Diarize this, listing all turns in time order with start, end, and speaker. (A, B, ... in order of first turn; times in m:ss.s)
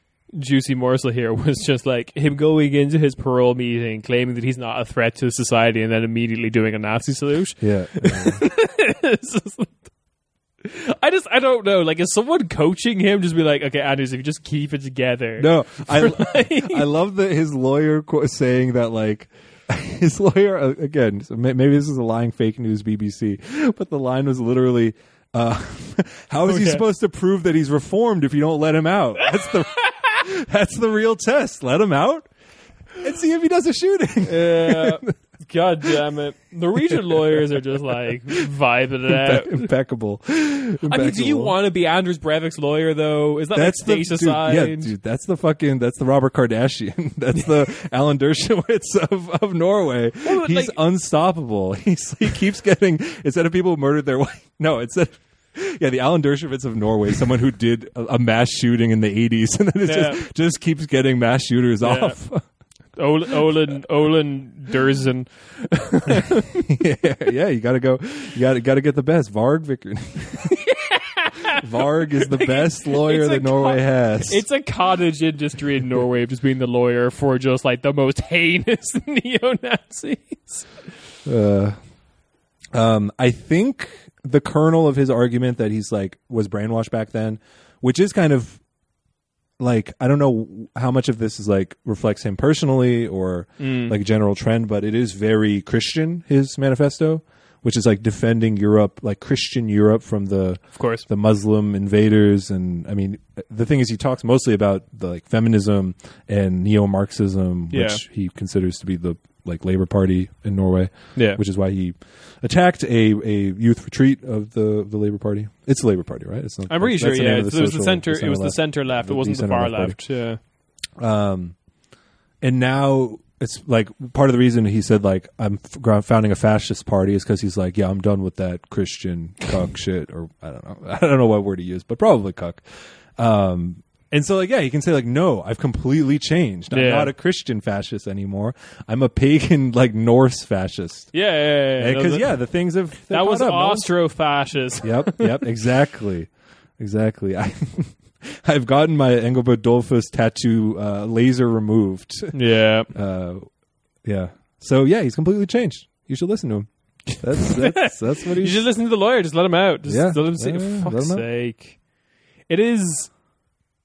0:00.3-0:09.8 A
0:07.6-0:08.4 B
0:10.6-0:16.8 A
0:15.4-0:32.3 B
0:26.5-0:26.8 A
0:33.0-0:35.1 B
0:34.3-0:39.7 A
0:37.1-0:37.4 B
0:39.1-0:41.5 B
0:40.9-0:44.9 A
0:43.5-1:02.4 B
0:50.2-0:50.8 A
0:59.9-1:00.2 A
1:01.8-1:02.2 A
1:03.0-1:06.7 A
1:06.7-1:10.6 B
1:10.5-1:20.7 A
1:11.5-1:14.4 B
1:21.3-1:21.8 B
1:22.7-1:28.6 B
1:29.6-2:00.0 B
1:33.6-1:34.0 A
1:40.7-1:41.0 A
1:47.7-1:48.0 A
1:56.7-2:00.4 A
2:01.0-2:01.6 B
2:02.4-2:12.6 B
2:13.2-2:21.1 B
2:16.7-2:17.1 A
2:21.1-2:22.4 A
2:21.8-2:23.9 B
2:23.0-2:25.4 A
2:24.8-2:32.4 B
2:32.3-2:32.9 A
2:32.9-2:33.5 B
2:34.0-2:38.6 B
2:37.4-2:41.8 A
2:39.9-2:41.2 B
2:42.5-2:43.1 A